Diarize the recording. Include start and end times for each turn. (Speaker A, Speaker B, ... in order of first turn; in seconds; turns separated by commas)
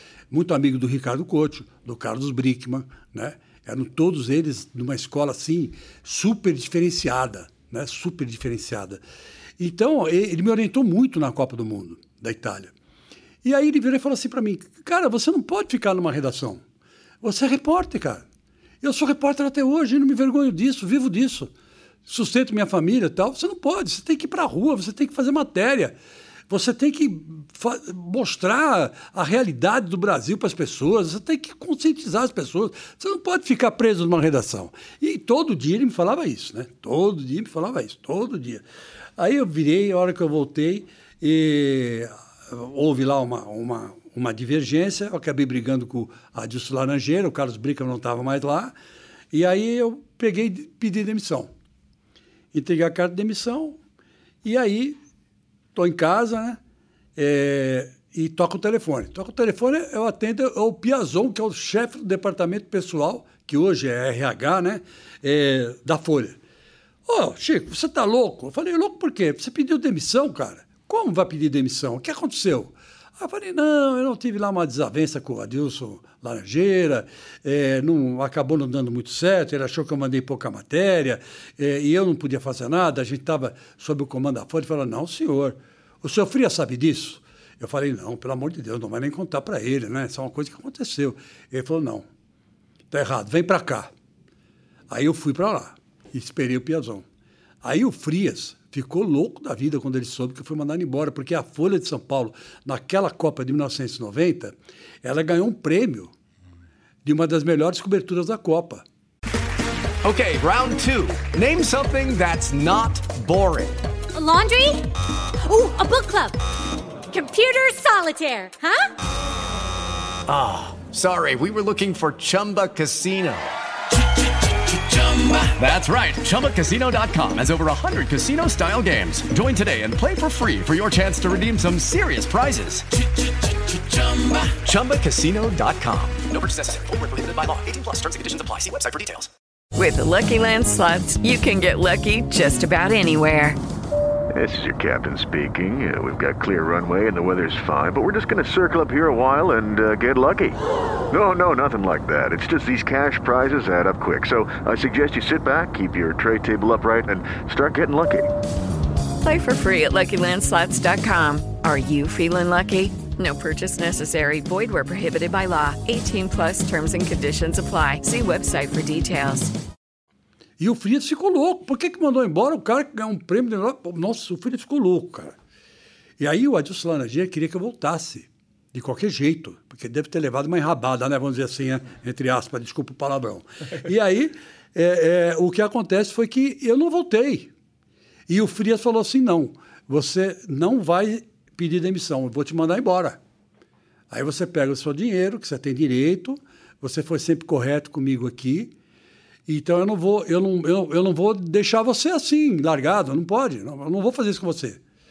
Speaker A: 0.3-9.0, Speaker A: 9.6-12.7, Speaker A: 13.4-16.6, Speaker A: 17.2-18.2, Speaker A: 18.8-21.5, Speaker A: 22.1-25.9, Speaker A: 26.5-38.6, Speaker A: 39.2-48.7, Speaker A: 49.3-51.5, Speaker A: 52.5-53.8, Speaker A: 54.4-55.0, Speaker A: 55.7-56.6, Speaker A: 57.1-66.4, Speaker A: 67.1-92.0, Speaker A: 92.9-93.9, Speaker A: 94.9-97.0, Speaker A: 97.6-106.1, Speaker A: 107.0-108.8, Speaker B: 110.0-113.8, Speaker C: 114.1-114.9, Speaker C: 115.4-116.4, Speaker C: 117.1-118.9, Speaker B: 120.3-123.5, Speaker B: 124.7-139.3, Speaker D: 139.7-143.6, Speaker E: 144.3-150.6, Speaker E: 151.1-158.3, Speaker D: 159.2-169.5, Speaker A: 170.6-175.3, Speaker A: 176.2-187.5, Speaker A: 188.3-193.2, Speaker A: 194.1-198.7, Speaker A: 199.5-204.8